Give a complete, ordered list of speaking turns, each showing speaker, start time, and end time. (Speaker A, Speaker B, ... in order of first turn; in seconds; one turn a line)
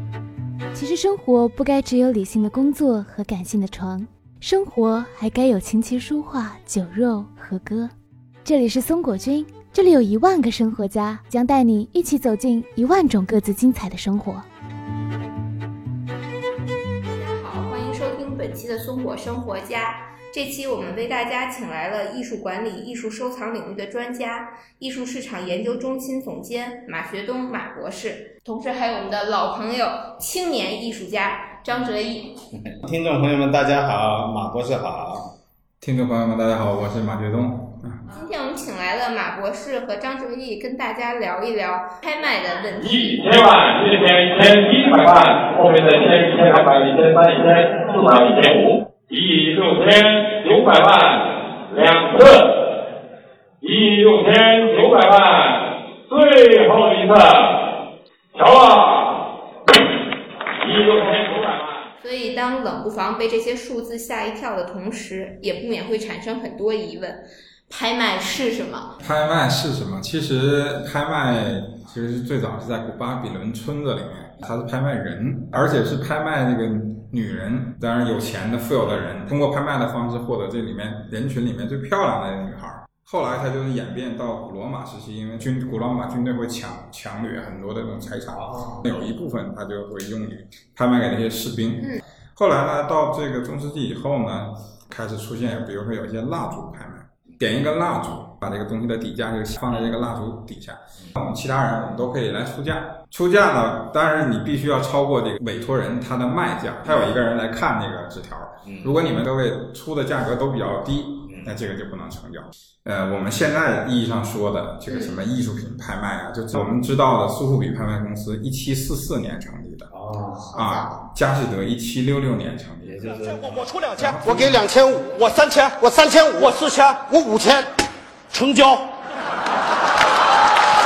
Speaker A: 0.8-7.9
Speaker A: 8.4-14.4
Speaker B: 17.1-32.4
Speaker C: 32.6-35.3
Speaker D: 35.8-38.0
Speaker B: 38.1-43.5
Speaker E: 43.1-52.5
Speaker E: 53.6-57.5
Speaker E: 58.4-59.2
Speaker E: 60.6-61.8
Speaker B: 62.0-68.9
Speaker D: 69.0-119.9
Speaker C: 88.3-88.9
Speaker C: 108.7-109.0
Speaker C: 111.3-111.6
Speaker B: 114.9-115.2
Speaker C: 119.9-120.7
Speaker B: 120.5-121.0
Speaker D: 120.5-123.1
Speaker C: 122.8-123.8
Speaker D: 123.8-125.2
Speaker F: 125.2-127.5